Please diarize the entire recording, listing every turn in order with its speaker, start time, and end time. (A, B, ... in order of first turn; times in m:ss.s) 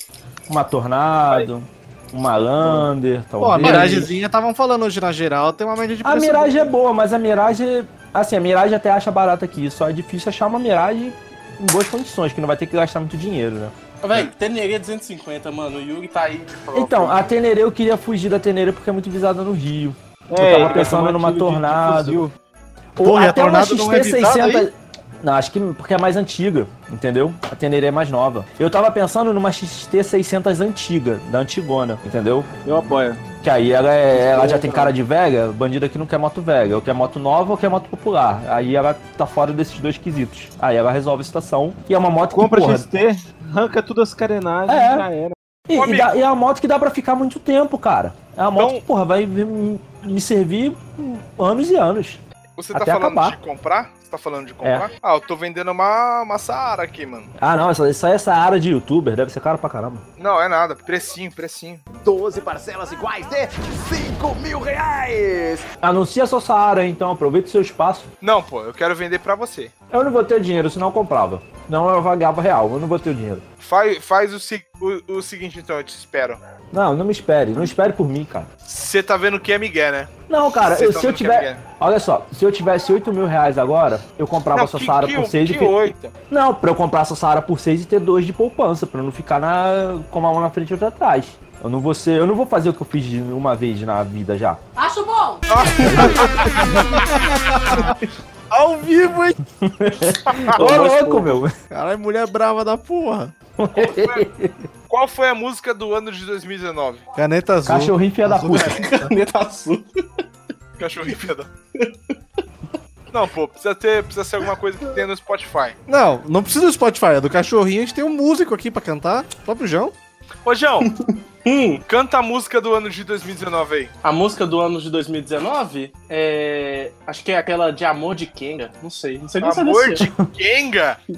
0:00.5-0:04.1 A
0:03.4-0:06.7 B
0:03.6-0:04.1 C
0:06.0-0:13.8 A
0:14.0-0:17.3 C
0:16.7-0:22.3 A
0:20.3-0:22.3 D
0:20.6-0:20.9 C
0:23.0-0:32.5 A
0:23.0-0:24.7 B
0:32.6-0:33.2 D
0:33.4-0:42.9 A
0:34.1-0:35.0 D
0:42.3-0:45.4 D
0:44.7-0:45.1 A
0:45.7-0:52.2 A
0:45.8-0:46.2 E
0:48.6-0:48.8 E
0:52.6-0:57.3 E
0:52.7-0:53.4 A
0:54.6-0:54.9 A
0:57.4-1:00.0 A
1:00.2-1:01.8 E
1:01.9-1:05.7 F
1:05.8-1:08.1 A
1:08.2-1:09.7 E
1:09.9-1:13.4 A
1:13.6-1:16.4 E
1:16.7-1:18.5 A
1:18.6-1:20.1 E
1:20.3-1:25.8 A
1:20.6-1:21.6 E
1:24.5-1:26.1 E
1:26.3-1:34.6 A
1:35.5-1:36.4 E
1:35.8-1:36.2 A
1:35.9-1:38.0 B
1:38.5-1:39.4 B
1:39.6-1:41.5 A
1:40.3-1:40.6 E
1:40.6-1:41.4 C
1:41.7-1:43.3 B
1:43.6-1:44.6 A
1:43.7-1:44.3 E
1:44.9-1:47.0 E
1:47.2-1:49.1 B
1:47.7-1:48.8 A
1:48.6-1:49.9 C
1:50.8-1:51.5 E
1:53.1-1:55.8 E
1:55.9-1:59.9 B
2:00.4-2:00.9 E
2:01.0-2:01.8 C
2:01.9-2:03.9 E
2:04.0-2:10.1 C
2:09.4-2:11.0 E